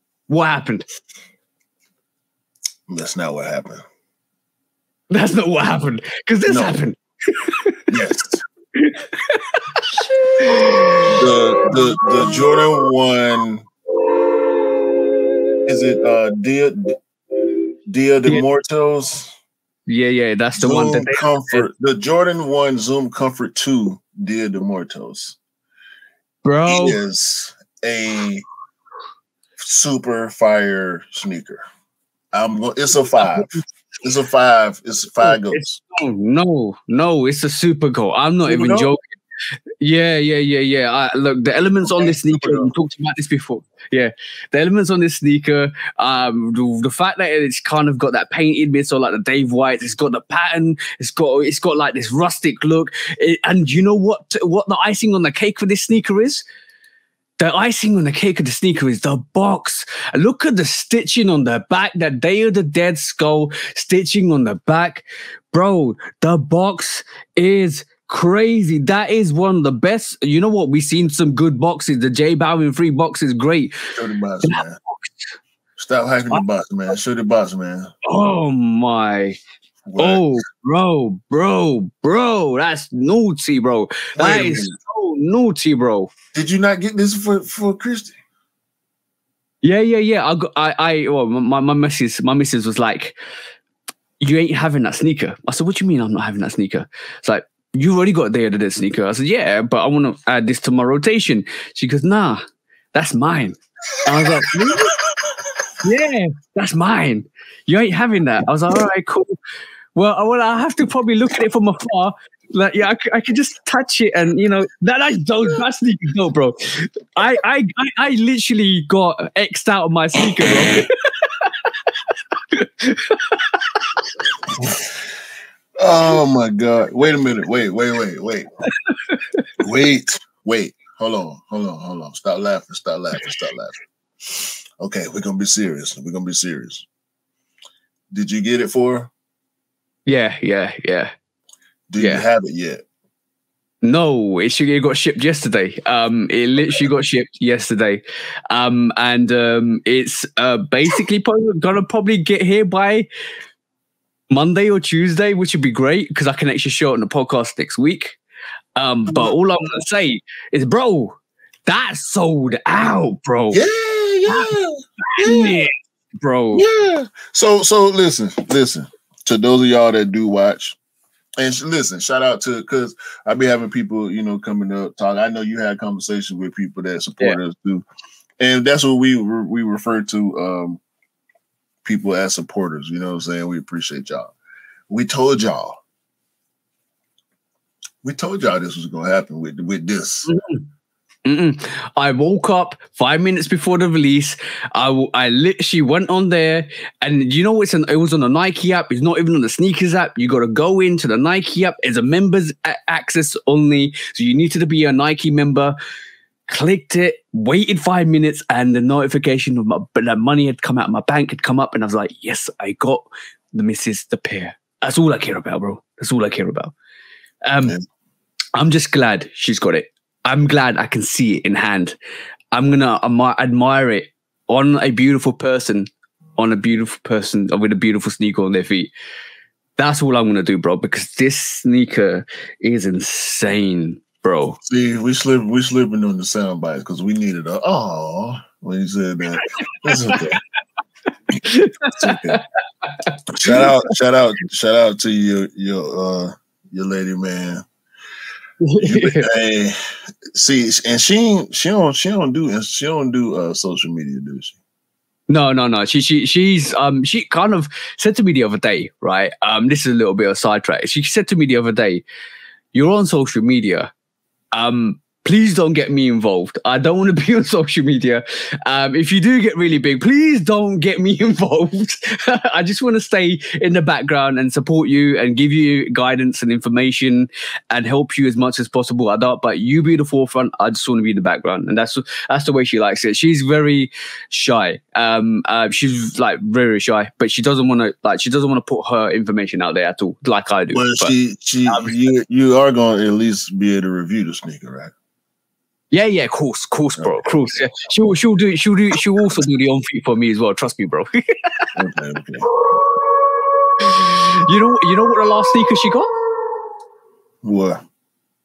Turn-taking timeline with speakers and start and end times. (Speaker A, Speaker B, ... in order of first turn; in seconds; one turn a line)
Speaker A: 0.3-0.8
Speaker B: 2.9-3.8
Speaker A: 5.1-7.8
Speaker B: 6.5-6.8
Speaker B: 7.9-8.4
Speaker A: 8.8-9.8
Speaker A: 10.4-11.0
Speaker B: 11.1-13.7
Speaker B: 15.7-16.9
Speaker B: 17.9-19.3
Speaker A: 19.9-21.7
Speaker B: 20.6-25.4
Speaker A: 26.4-27.0
Speaker B: 26.7-28.4
Speaker B: 29.6-31.6
Speaker B: 32.3-33.5
Speaker A: 33.2-33.6
Speaker B: 34.0-35.8
Speaker A: 35.2-39.0
Speaker B: 38.5-38.9
Speaker A: 39.8-56.4
Speaker B: 41.8-42.7
Speaker A: 57.4-73.8
Speaker B: 73.9-74.8
Speaker B: 75.8-77.9
Speaker A: 78.0-79.4
Speaker B: 79.8-80.3
Speaker A: 80.0-86.1
Speaker B: 84.2-84.7
Speaker B: 86.3-88.1
Speaker A: 89.6-93.2
Speaker A: 94.2-102.4
Speaker A: 102.9-104.9
Speaker B: 104.2-105.3
Speaker A: 105.8-109.3
Speaker A: 109.9-121.9
Speaker A: 122.5-123.9
Speaker B: 124.6-124.9
Speaker B: 125.8-128.5
Speaker A: 128.8-129.4
Speaker B: 129.6-136.9
Speaker B: 138.1-139.1
Speaker A: 140.1-141.1
Speaker B: 141.9-142.8
Speaker A: 142.0-142.2
Speaker A: 143.8-153.1
Speaker A: 154.3-158.2
Speaker A: 158.8-161.2
Speaker A: 161.7-163.6
Speaker B: 163.5-165.6
Speaker A: 165.2-166.6
Speaker B: 166.5-170.8
Speaker B: 171.4-177.8
Speaker B: 178.4-180.8
Speaker B: 181.8-184.3
Speaker B: 184.9-185.8
Speaker B: 188.0-190.3
Speaker A: 190.3-190.6
Speaker A: 191.2-205.7
Speaker A: 206.5-216.7
Speaker A: 217.4-217.8
Speaker A: 218.6-221.9
Speaker A: 222.5-228.9
Speaker A: 229.8-234.6
Speaker B: 234.7-240.4
Speaker A: 239.7-240.2
Speaker A: 241.4-243.6
Speaker B: 241.9-242.4
Speaker B: 243.3-247.6
Speaker A: 248.6-249.3
Speaker B: 248.8-249.8
Speaker B: 250.3-254.6
Speaker A: 255.3-262.0
Speaker A: 262.7-263.9
Speaker A: 264.5-291.1
Speaker B: 290.7-294.9
Speaker A: 291.7-291.9
Speaker A: 295.9-301.7
Speaker B: 297.0-297.4
Speaker B: 301.8-302.5
Speaker A: 303.8-306.1
Speaker B: 307.4-307.8